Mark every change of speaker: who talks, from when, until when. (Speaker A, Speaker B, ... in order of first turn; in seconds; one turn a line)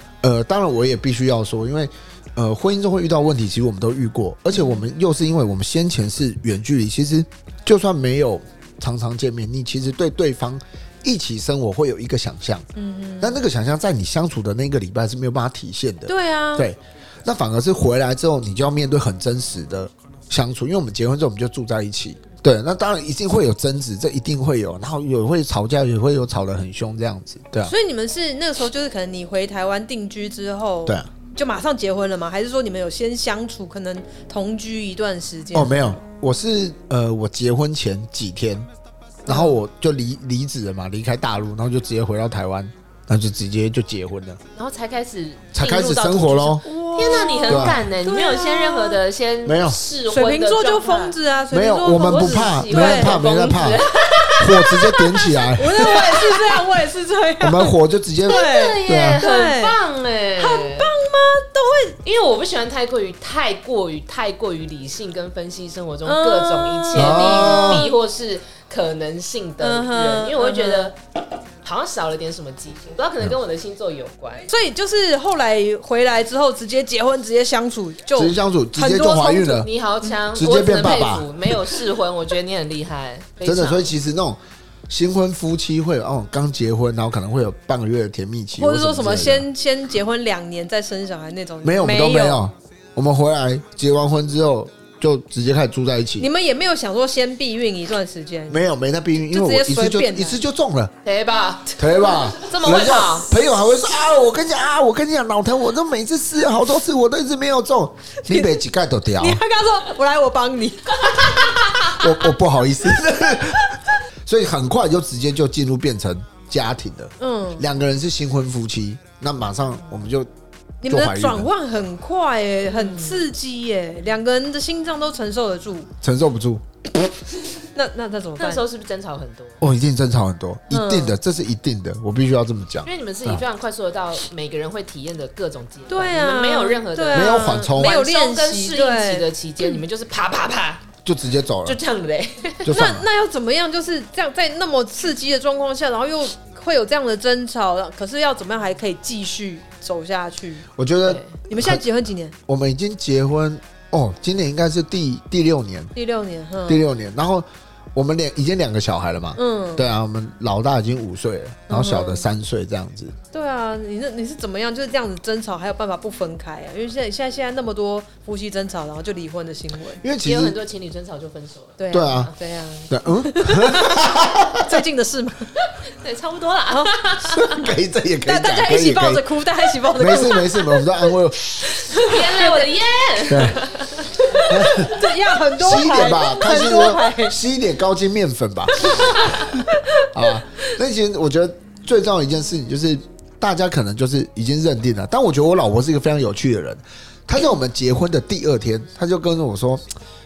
Speaker A: 0.2-12.7
Speaker B: 4.5-4.8
Speaker B: 12.8-13.4
Speaker A: 13.2-27.7
Speaker B: 16.1-16.7
Speaker B: 27.6-36.0
Speaker A: 35.5-38.7
Speaker A: 39.2-44.4
Speaker B: 39.3-39.6
Speaker C: 44.5-51.2
Speaker A: 45.5-47.9
Speaker B: 46.6-49.0
Speaker A: 49.4-49.8
Speaker B: 50.0-53.2
Speaker A: 51.5-53.8
Speaker C: 51.9-56.3
Speaker B: 54.2-54.9
Speaker A: 54.4-56.2
Speaker B: 55.5-57.7
Speaker A: 57.4-59.2
Speaker B: 58.2-59.8
Speaker C: 58.3-60.9
Speaker B: 60.4-62.0
Speaker C: 62.0-71.0
Speaker B: 66.0-67.9
Speaker A: 66.9-67.9
Speaker B: 69.6-70.9
Speaker C: 71.6-74.5
Speaker B: 74.5-79.6
Speaker A: 78.1-79.7
Speaker C: 79.5-83.9
Speaker A: 80.3-81.7
Speaker A: 83.4-89.5
Speaker B: 88.5-92.4
Speaker A: 91.6-96.3
Speaker B: 96.2-98.7
Speaker A: 98.5-100.9
Speaker B: 99.3-100.4
Speaker C: 101.0-103.3
Speaker A: 101.8-109.4
Speaker B: 108.2-108.6
Speaker B: 109.2-112.2
Speaker A: 111.9-120.3
Speaker B: 117.2-117.6
Speaker B: 120.8-125.9
Speaker A: 120.8-121.5
Speaker C: 122.7-123.2
Speaker A: 126.0-126.6
Speaker B: 127.7-128.6
Speaker C: 128.4-129.6
Speaker A: 129.6-133.4
Speaker B: 130.7-131.2
Speaker C: 132.8-140.8
Speaker B: 135.9-139.8
Speaker A: 137.1-138.0
Speaker A: 141.0-141.8
Speaker C: 141.6-142.7
Speaker A: 142.6-143.1
Speaker B: 142.7-150.7
Speaker A: 150.8-151.8
Speaker C: 151.0-151.3
Speaker B: 151.5-152.3
Speaker A: 152.5-155.9
Speaker B: 155.9-156.8
Speaker A: 156.7-163.1
Speaker B: 159.3-159.9
Speaker B: 161.7-162.2
Speaker B: 163.3-170.0
Speaker A: 170.0-170.6
Speaker C: 170.2-171.8
Speaker B: 171.8-175.5
Speaker A: 171.9-172.3
Speaker A: 172.9-174.8
Speaker C: 176.0-177.4
Speaker B: 176.7-177.7
Speaker A: 177.3-179.2
Speaker B: 178.2-180.8
Speaker A: 179.9-181.5
Speaker C: 181.8-184.4
Speaker B: 181.8-182.7
Speaker A: 183.3-183.6
Speaker B: 184.1-187.4
Speaker A: 184.4-184.9
Speaker A: 185.6-199.8
Speaker B: 188.8-190.1